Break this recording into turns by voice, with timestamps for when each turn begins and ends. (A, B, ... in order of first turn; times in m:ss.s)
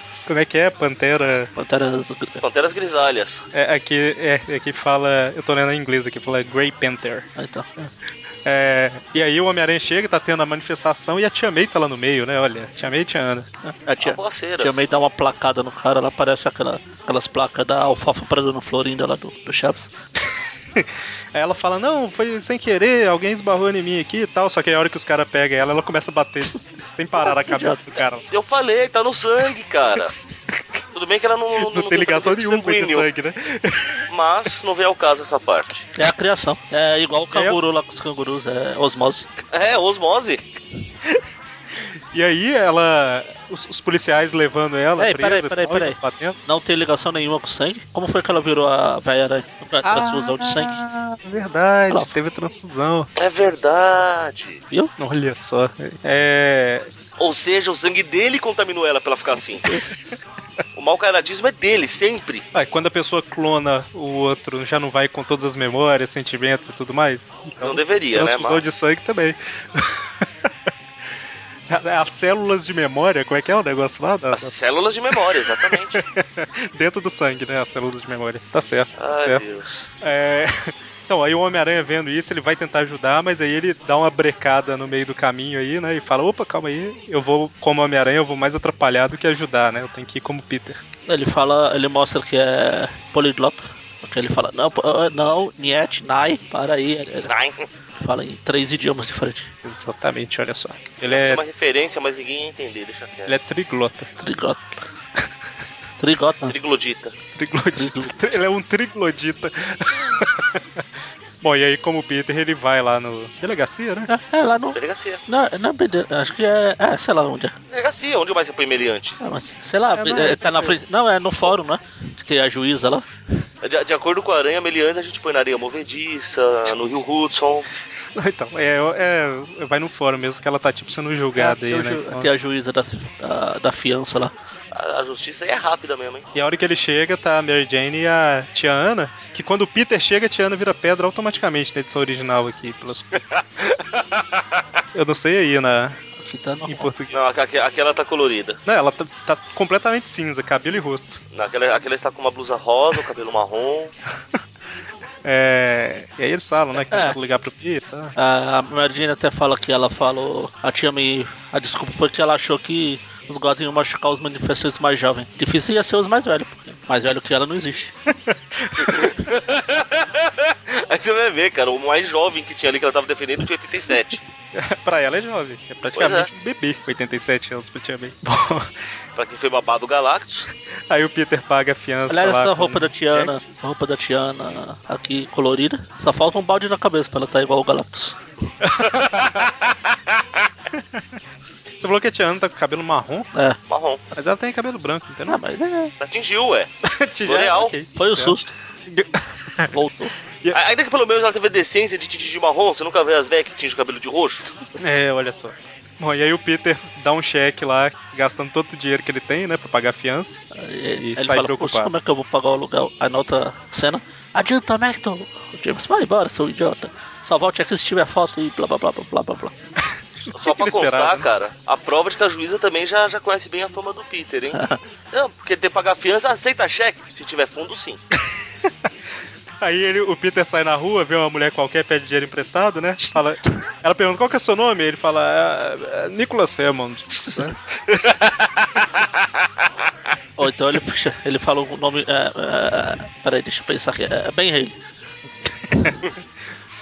0:00.2-0:01.5 A
0:01.6-0:02.4 B
0:02.4-0:03.4 C
0:03.5-0:07.2 A
0:07.4-0:07.7 B
0:08.4-0:13.5 A
0:13.8-0:19.9 B
0:14.0-0:14.8 C
0:20.8-0:28.2 A
0:27.2-0:28.0 B
0:28.3-0:30.1 C
0:30.5-0:30.8 A
0:30.9-0:33.1 C
0:31.6-0:34.5 A
0:34.1-0:35.8 C
0:35.9-0:39.3 B
0:37.3-0:37.6 A
0:39.5-0:40.4 C
0:41.8-0:46.4 A
0:45.0-0:50.8 B
0:49.8-0:53.1 A
0:53.2-0:54.6 C
0:55.0-0:56.9 A
0:57.2-0:59.6 C
0:59.6-0:59.9 B
1:00.8-1:02.4 C
1:02.5-1:10.5 A
1:07.6-1:08.8 C
1:11.7-1:14.6 A
1:14.3-1:16.0 C
1:15.1-1:19.4 A
1:19.0-1:19.9 C
1:20.0-1:30.8 A
1:31.1-1:37.3 B
1:37.3-1:37.7 C
1:37.9-1:39.5 B
1:39.6-1:41.4 A
1:41.1-1:43.3 C
1:43.3-1:44.1 A
1:44.2-1:44.6 B
1:46.0-1:46.5 B
1:46.4-1:47.2 C
1:47.3-1:50.8 A
1:47.7-1:48.2 B
1:51.4-1:54.1 A
1:54.1-1:57.6 B
1:54.7-1:55.2 C
1:57.7-1:59.3 C
1:59.2-2:03.0 B
1:59.9-2:00.8 A
2:03.6-2:07.7 C
2:08.1-2:12.3 A
2:11.4-2:14.3 B
2:14.7-2:16.3 C
2:16.3-2:23.2 A
2:23.7-2:24.4 C
2:24.9-2:26.0 A
2:26.2-2:26.9 B
2:26.7-2:27.1 A
2:27.1-2:28.6 C
2:28.7-2:31.2 A
2:31.3-2:33.9 C
2:35.2-2:38.2 A
2:36.8-2:37.1 B
2:38.2-2:47.9 B
2:48.1-2:48.9 A
2:48.8-2:54.2 C
2:54.5-2:58.8 A
2:55.9-2:56.3 C
2:59.2-3:00.5 C
3:00.9-3:03.4 A
3:02.1-3:08.2 B
3:08.6-3:09.5 A
3:10.7-3:11.1 A
3:11.8-3:13.3 A
3:13.7-3:14.0 C
3:14.1-3:15.4 A
3:15.3-3:15.9 B
3:16.0-3:16.7 C
3:16.8-3:19.7 A
3:17.2-3:17.7 C
3:18.0-3:18.5 B
3:19.7-3:20.1 B
3:20.5-3:24.5 C
3:24.8-3:30.4 A
3:30.5-3:39.5 B
3:31.0-3:31.9 A
3:40.3-3:41.3 A
3:40.3-3:48.0 C
3:44.5-3:44.8 B
3:49.6-3:57.6 A
4:00.4-4:04.8 B
4:05.7-4:06.0 A